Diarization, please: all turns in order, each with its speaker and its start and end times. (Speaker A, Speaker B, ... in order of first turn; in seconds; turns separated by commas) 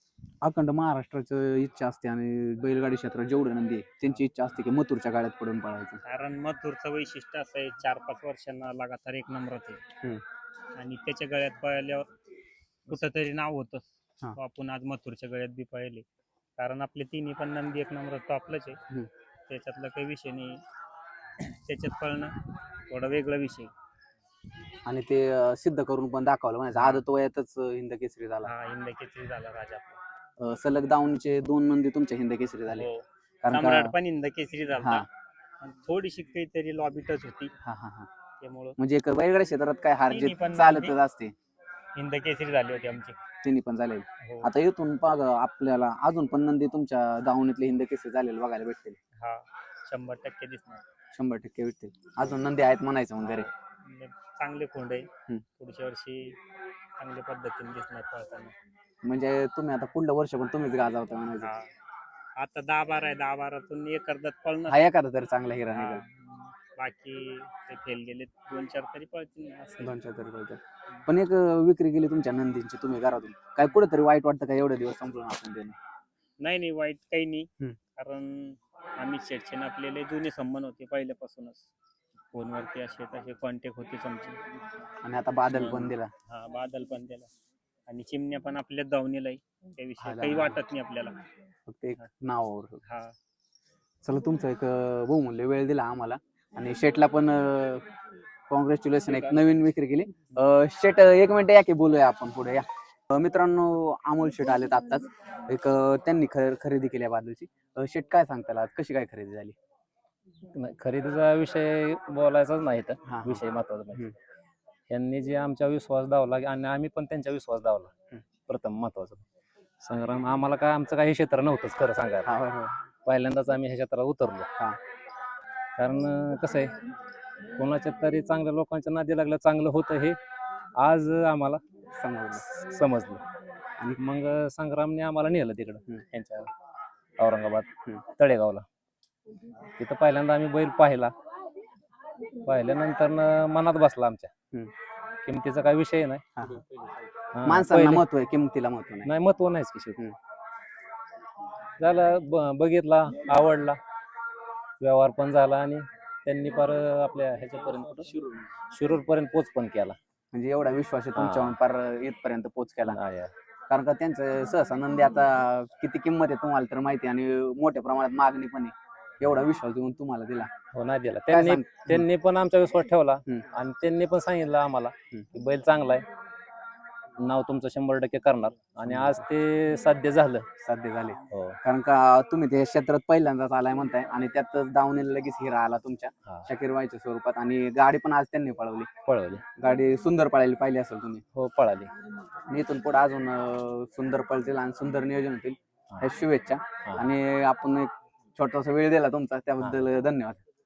Speaker A: 0.4-6.0, Speaker B: 6.0-9.8, Speaker B: 10.8-12.1, Speaker B: 12.9-13.8, Speaker B: 14.4-16.1, Speaker B: 16.6-18.8, Speaker B: 19.5-20.6, Speaker B: 21.4-22.4, Speaker B: 22.9-23.7, Speaker A: 24.9-28.5, Speaker B: 26.8-27.0, Speaker B: 28.4-30.0, Speaker A: 30.4-32.9, Speaker B: 32.7-35.1, Speaker A: 33.4-33.9, Speaker A: 34.8-35.1, Speaker B: 35.6-37.5, Speaker A: 37.6-38.1, Speaker B: 38.4-38.8, Speaker A: 38.8-41.3, Speaker B: 40.1-41.0, Speaker B: 42.0-43.2, Speaker A: 43.4-49.0, Speaker B: 44.2-44.5, Speaker B: 49.2-50.8, Speaker A: 51.1-53.5, Speaker B: 53.2-55.1, Speaker B: 55.6-56.4, Speaker B: 57.0-58.5, Speaker A: 59.0-61.5, Speaker B: 61.4-61.7, Speaker B: 62.4-64.8, Speaker A: 64.7-66.0, Speaker B: 65.7-69.9, Speaker A: 69.8-75.8, Speaker B: 76.4-81.7, Speaker B: 82.3-84.4, Speaker A: 85.0-86.1, Speaker B: 85.5-87.3, Speaker B: 87.9-91.2, Speaker A: 90.0-90.6, Speaker A: 91.7-92.8, Speaker B: 92.8-93.1, Speaker A: 94.0-97.8, Speaker A: 98.5-109.5, Speaker B: 99.1-99.4, Speaker C: 110.5-114.1, Speaker A: 113.0-113.4, Speaker C: 114.9-117.9, Speaker C: 118.5-119.2, Speaker C: 119.8-122.3, Speaker A: 122.2-122.7, Speaker C: 123.1-124.5, Speaker C: 125.8-126.7, Speaker C: 127.6-130.2, Speaker C: 130.8-131.6, Speaker A: 132.0-132.5, Speaker C: 132.4-133.2, Speaker C: 134.0-136.5, Speaker C: 137.2-138.7, Speaker C: 139.8-141.1, Speaker C: 142.4-144.3, Speaker C: 145.2-146.2, Speaker B: 146.4-147.1, Speaker C: 147.3-148.1, Speaker A: 147.4-149.1, Speaker C: 149.0-150.0, Speaker C: 151.8-153.8, Speaker C: 154.8-158.1, Speaker C: 158.7-160.0, Speaker A: 160.3-163.0, Speaker C: 161.2-161.6, Speaker C: 162.9-163.3, Speaker A: 163.7-170.5, Speaker C: 170.7-176.1, Speaker A: 171.3-172.1, Speaker C: 177.2-180.5, Speaker A: 178.9-179.2, Speaker A: 180.6-188.9, Speaker C: 181.3-181.6, Speaker C: 189.1-189.4, Speaker A: 189.6-191.2, Speaker C: 191.3-191.9, Speaker A: 192.5-200.4